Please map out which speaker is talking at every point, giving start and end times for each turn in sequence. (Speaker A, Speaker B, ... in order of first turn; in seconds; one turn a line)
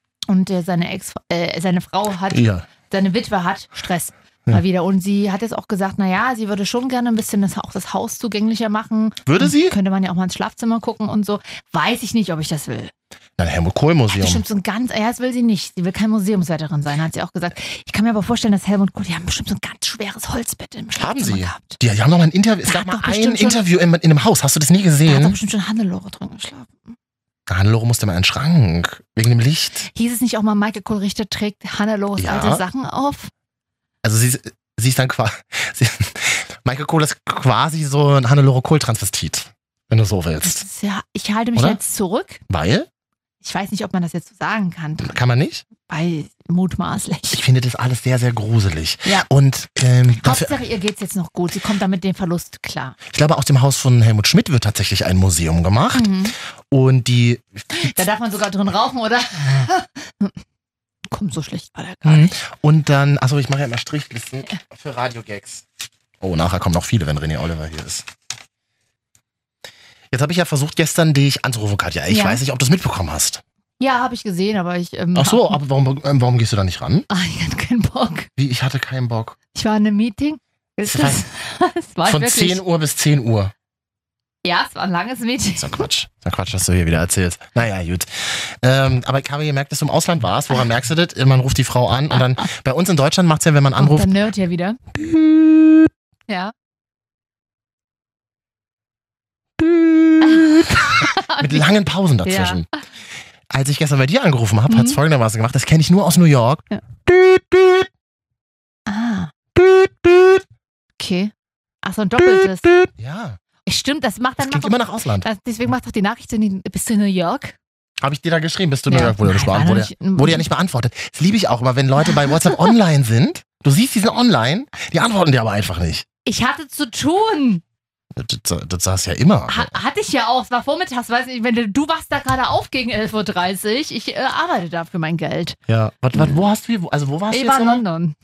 Speaker A: 0.3-12.9
Speaker B: 2.3-2.7
Speaker B: 9.3-9.8
Speaker B: 13.4-14.4
Speaker A: 14.1-21.8
Speaker B: 21.0-25.4
Speaker A: 22.7-23.6
Speaker A: 25.1-27.0
Speaker B: 27.5-29.9
Speaker A: 29.9-33.3
Speaker B: 32.2-32.6
Speaker B: 34.0-40.6
Speaker A: 40.4-42.4
Speaker B: 42.5-42.9
Speaker A: 43.4-45.2
Speaker B: 45.0-45.6
Speaker A: 45.8-47.4
Speaker B: 47.3-50.5
Speaker A: 50.1-53.0
Speaker B: 53.1-56.2
Speaker A: 55.9-56.4
Speaker B: 56.7-57.9
Speaker A: 57.7-60.4
Speaker A: 61.1-62.4
Speaker B: 62.0-65.7
Speaker B: 66.2-68.0
Speaker B: 70.1-73.4
Speaker A: 72.1-72.4
Speaker A: 73.8-75.6
Speaker B: 75.2-77.1
Speaker A: 77.1-78.3
Speaker B: 78.4-79.4
Speaker A: 79.5-82.6
Speaker B: 80.8-81.2
Speaker B: 82.1-83.5
Speaker A: 84.4-85.9
Speaker B: 85.6-94.1
Speaker A: 92.1-92.4
Speaker A: 93.8-94.8
Speaker B: 95.0-95.9
Speaker A: 96.3-96.5
Speaker B: 99.6-102.7
Speaker A: 100.2-101.7
Speaker A: 102.2-102.7
Speaker B: 103.5-107.9
Speaker A: 104.7-105.0
Speaker A: 108.9-109.3
Speaker B: 109.6-110.4
Speaker A: 111.0-112.8
Speaker B: 112.2-113.4
Speaker A: 113.7-117.6
Speaker B: 114.4-115.3
Speaker B: 118.0-126.0
Speaker A: 118.9-120.5
Speaker A: 122.0-122.7
Speaker A: 126.2-127.6
Speaker B: 128.1-129.7
Speaker A: 129.5-135.6
Speaker B: 135.7-137.8
Speaker A: 136.2-136.4
Speaker A: 137.3-138.2